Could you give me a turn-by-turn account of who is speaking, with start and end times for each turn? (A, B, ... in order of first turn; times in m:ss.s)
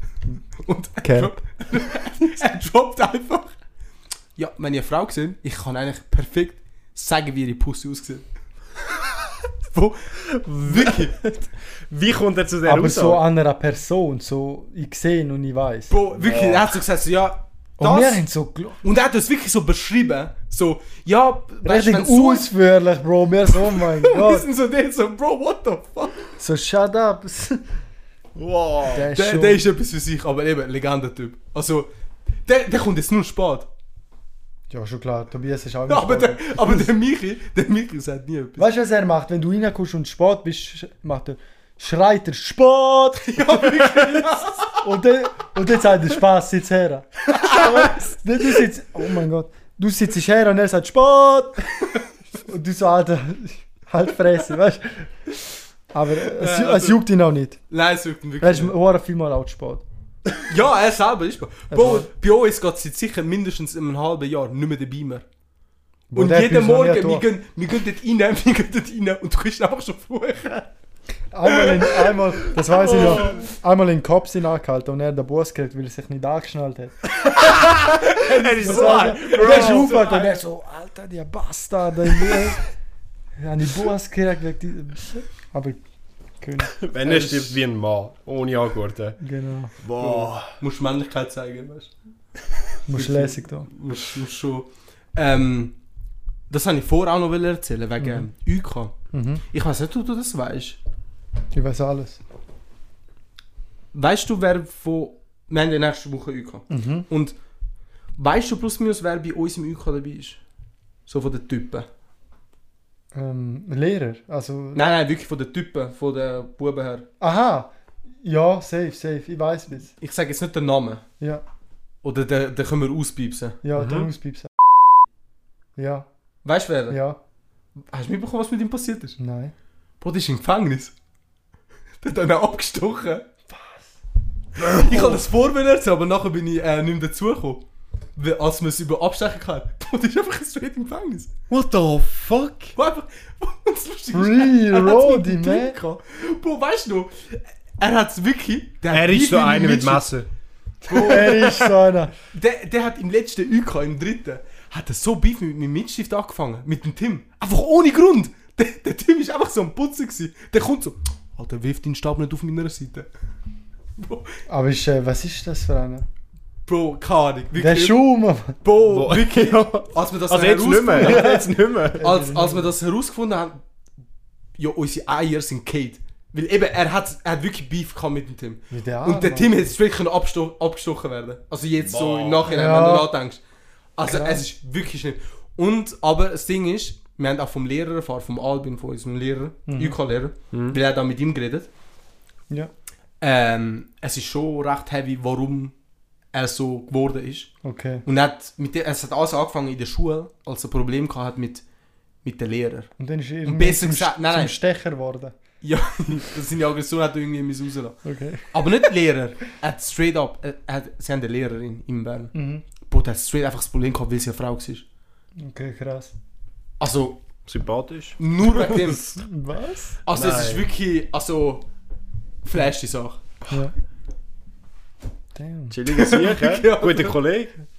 0:00.5-0:03.5 A
0:01.0-0:01.3 B
0:04.4-0:08.3 A
0:09.7-0:11.2 A
0:10.4-0:11.1 C
0:11.9-0:13.2 C
0:12.6-0:15.9 B
0:15.9-0:18.2 A
0:16.2-0:16.8 C
0:17.8-0:18.8 B
0:18.8-0:22.5 A
0:21.6-0:24.5 B
0:23.5-0:26.3 A
0:26.4-0:27.6 B
0:28.4-0:29.1 C
0:28.8-0:29.6 B
0:29.1-0:31.9 A
0:32.4-0:33.7 A
0:34.7-0:36.9 B
0:35.9-0:38.7 A
0:38.6-0:43.9 B
0:43.2-0:44.9 A
0:44.8-0:51.7 B
0:47.3-0:47.9 A
0:52.4-0:55.1 B
0:55.9-0:57.6 B
0:56.2-0:57.0 A
0:57.7-0:58.8 A
0:58.4-0:59.8 B
1:00.4-1:05.2 A
1:01.7-1:02.1 B
1:06.1-1:07.2 B
1:06.1-1:10.7 A
1:11.3-1:17.1 B
1:11.5-1:12.1 A
1:12.8-1:13.4 C
1:17.2-1:20.1 C
1:17.4-1:20.4 A
1:18.6-1:22.6 B
1:23.4-1:25.8 B
1:26.4-1:27.6 B
1:26.8-1:29.2 C
1:29.2-1:29.7 B
1:29.8-1:30.5 C
1:30.0-1:31.9 A
1:32.9-1:33.7 B
1:32.9-1:35.8 A
1:36.5-1:38.9 A
1:38.0-1:38.3 B
1:39.1-1:39.4 B
1:39.5-1:40.8 A
1:41.5-1:42.2 B
1:43.9-1:47.4 A
1:46.7-1:47.1 B
1:48.2-1:50.4 A
1:51.1-1:51.9 A
1:53.1-1:54.8 B
1:54.7-1:57.1 A
1:57.2-1:59.9 B
2:00.0-2:01.0 A
2:02.0-2:03.6 A
2:03.6-2:04.5 B
2:03.8-2:04.1 C
2:05.8-2:06.1 B
2:06.4-2:07.0 A
2:06.9-2:07.2 B
2:07.8-2:09.2 A
2:09.2-2:09.5 B
2:10.0-2:10.9 A
2:12.0-2:13.3 A
2:13.5-2:13.9 B
2:14.6-2:17.6 A
2:14.8-2:15.1 B
2:18.2-2:21.3 A
2:21.5-2:22.8 C
2:22.8-2:30.1 A
2:24.1-2:25.8 B
2:28.9-2:30.3 C
2:30.8-2:31.5 A
2:30.9-2:31.7 C
2:31.0-2:32.1 B
2:32.3-2:43.1 A
2:44.0-2:44.4 A
2:44.5-2:46.0 B
2:46.7-2:48.0 A
2:47.6-2:48.6 B
2:48.6-2:51.4 A
2:48.9-2:52.0 C
2:51.0-2:52.7 B
2:52.0-2:53.6 A
2:54.6-3:03.4 A
2:58.7-2:59.5 B
3:01.8-3:02.5 C
3:02.5-3:03.1 B
3:04.0-3:11.7 A
3:04.0-3:04.5 B
3:09.7-3:10.0 B
3:10.5-3:10.8 C
3:13.2-3:15.7 A
3:16.3-3:17.5 A
3:17.6-3:18.0 B
3:18.0-3:21.6 A
3:22.2-3:22.9 A
3:23.0-3:25.4 B
3:23.4-3:24.5 A
3:25.6-3:32.4 A
3:28.0-3:28.7 B
3:32.3-3:32.6 B
3:32.9-3:34.8 A
3:35.4-3:36.1 B
3:36.8-3:37.2 A
3:37.5-3:38.2 C
3:38.2-3:39.1 A
3:38.7-3:40.0 B
3:40.0-3:41.6 A
3:40.1-3:40.7 C
3:42.4-3:43.2 A
3:43.5-3:43.7 B
3:45.4-3:45.8 B
3:45.7-3:47.6 C
3:45.9-3:47.2 A